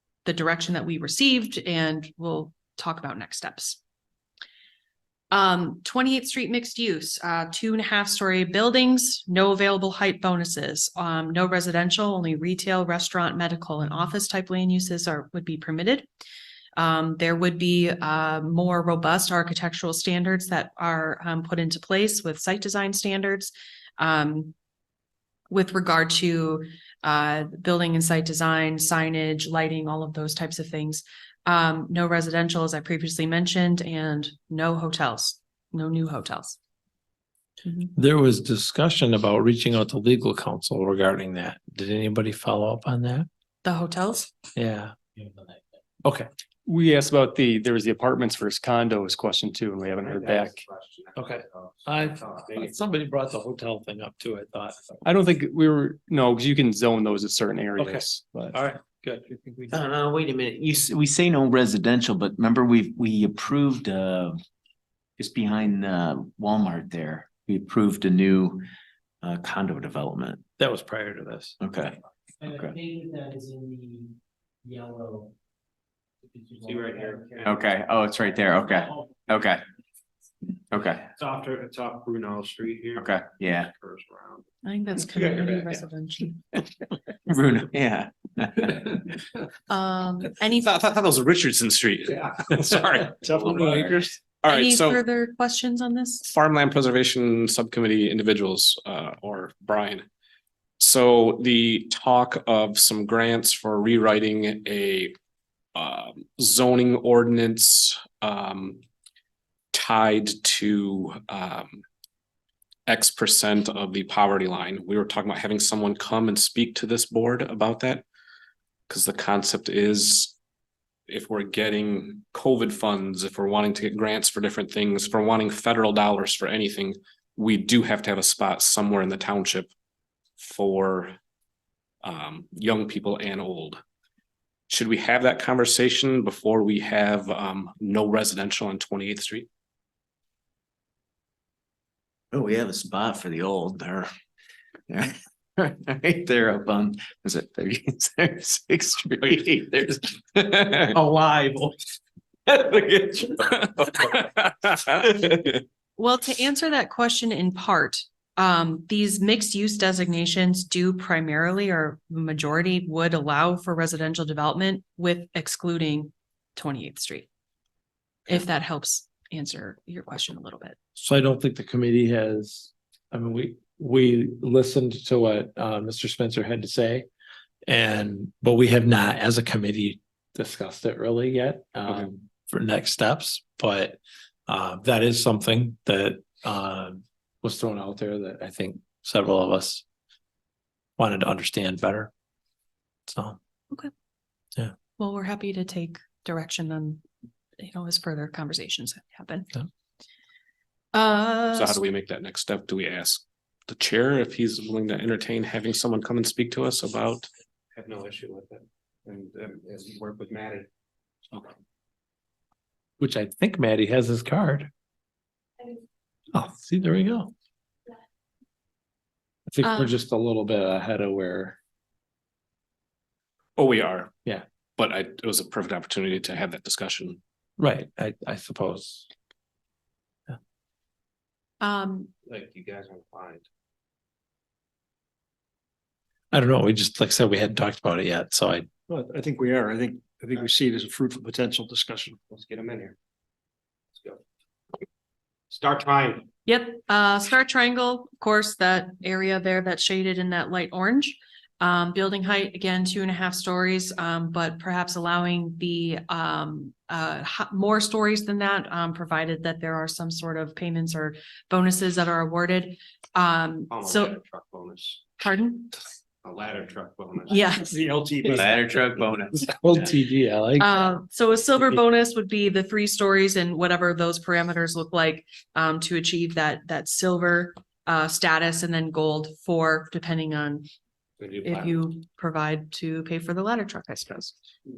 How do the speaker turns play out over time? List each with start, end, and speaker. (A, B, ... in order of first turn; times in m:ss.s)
0:00.2-0:03.8 A
0:05.3-0:16.1 A
0:16.8-0:24.5 A
0:25.5-0:36.6 A
0:37.9-0:43.3 B
0:43.6-0:44.3 A
0:44.5-0:45.0 B
0:45.2-0:45.6 C
0:46.6-0:50.6 D
0:50.0-0:52.8 E
0:51.1-0:55.0 B
0:55.0-0:58.6 D
0:57.8-0:59.8 B
0:59.7-1:04.4 F
1:05.2-1:08.6 F
1:09.2-1:10.4 F
1:10.6-1:11.6 B
1:11.6-1:12.8 F
1:12.4-1:15.3 C
1:16.3-1:17.4 C
1:16.6-1:17.6 E
1:17.4-1:19.6 F
1:20.7-1:21.0 F
1:21.2-1:24.4 E
1:22.9-1:23.7 F
1:24.6-1:26.4 A
1:27.2-1:29.1 F
1:29.7-1:30.7 A
1:30.5-1:35.0 G
1:33.2-1:33.7 E
1:33.2-1:33.9 H
1:34.4-1:36.3 A
1:36.2-1:40.1 G
1:40.8-1:45.1 G
1:45.7-1:48.8 G
1:49.7-1:51.8 G
1:52.9-1:58.0 G
1:58.9-2:00.3 G
2:01.1-2:09.7 G
2:10.4-2:11.2 G
2:12.0-2:13.8 G
2:14.7-2:19.5 G
2:22.3-2:24.1 F
2:24.9-2:31.7 F
2:32.5-2:34.1 F
2:34.2-2:34.9 G
2:36.0-2:47.3 A
2:48.3-2:50.8 A
2:51.0-2:57.1 B
2:57.7-3:09.8 B
3:11.0-3:12.1 B
3:13.1-3:13.4 B
3:15.0-3:17.0 A
3:17.6-3:19.5 A
3:20.9-3:21.8 A
3:21.5-3:27.3 G
3:27.7-3:30.7 E
3:33.0-3:34.7 B
3:36.3-3:37.3 B
3:39.5-3:41.6 B
3:39.6-3:39.9 A
3:43.6-3:44.1 G
3:44.8-3:47.2 G
3:47.6-3:49.1 B
3:51.6-3:52.1 A
3:52.2-3:53.4 E
3:56.3-3:58.7 B
3:58.9-4:02.2 H
4:02.2-4:03.0 E
4:03.9-4:04.2 E
4:05.5-4:06.3 E
4:06.4-4:24.2 A
4:23.7-4:25.0 E
4:25.2-4:25.7 A
4:26.2-4:27.5 E
4:27.3-4:27.8 A
4:27.6-4:28.6 H
4:28.4-4:29.9 F
4:29.5-4:30.9 B
4:30.6-4:40.7 A
4:41.2-4:41.9 E
4:41.4-4:44.4 A